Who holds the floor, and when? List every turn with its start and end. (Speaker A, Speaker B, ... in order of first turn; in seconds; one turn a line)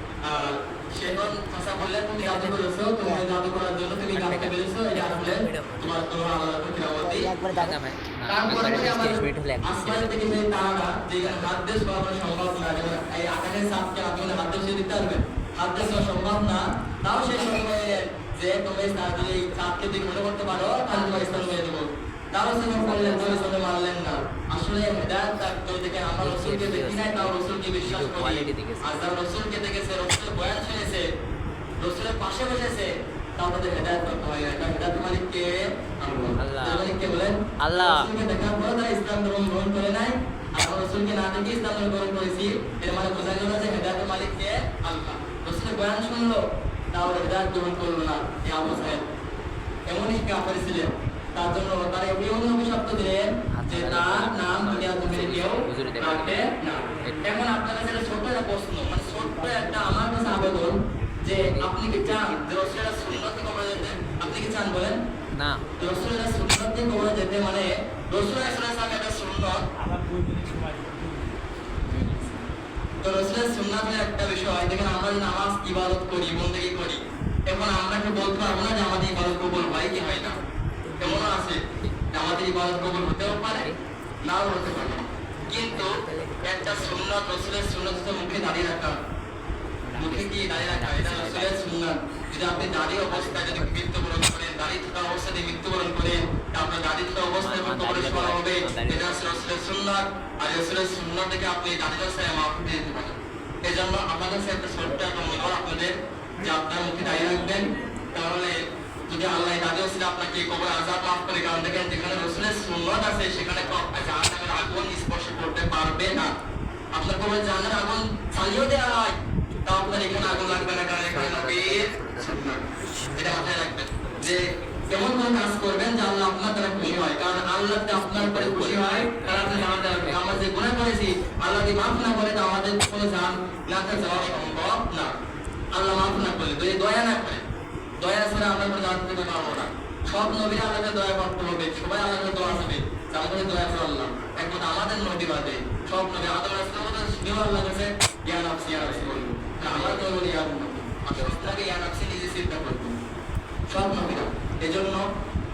Speaker A: 0.2-7.3
Speaker B: 7.5-9.8
Speaker A: 8.3-31.1
Speaker B: 28.1-28.8
Speaker A: 31.8-46.4
Speaker B: 36.4-36.9
Speaker B: 37.6-37.9
Speaker A: 46.9-49.1
Speaker A: 49.9-65.0
Speaker B: 53.6-56.4
Speaker B: 65.3-65.6
Speaker A: 65.8-69.6
Speaker B: 71.9-72.2
Speaker A: 73.0-80.4
Speaker A: 81.0-81.6
Speaker A: 82.1-83.7
Speaker A: 84.3-89.0
Speaker A: 90.0-108.6
Speaker B: 97.6-99.0
Speaker A: 109.1-116.3
Speaker A: 116.9-119.1
Speaker A: 119.7-122.6
Speaker B: 121.8-122.2
Speaker A: 123.2-135.1
Speaker B: 129.1-130.0
Speaker A: 135.7-137.4
Speaker A: 138.0-153.0
Speaker A: 153.7-155.1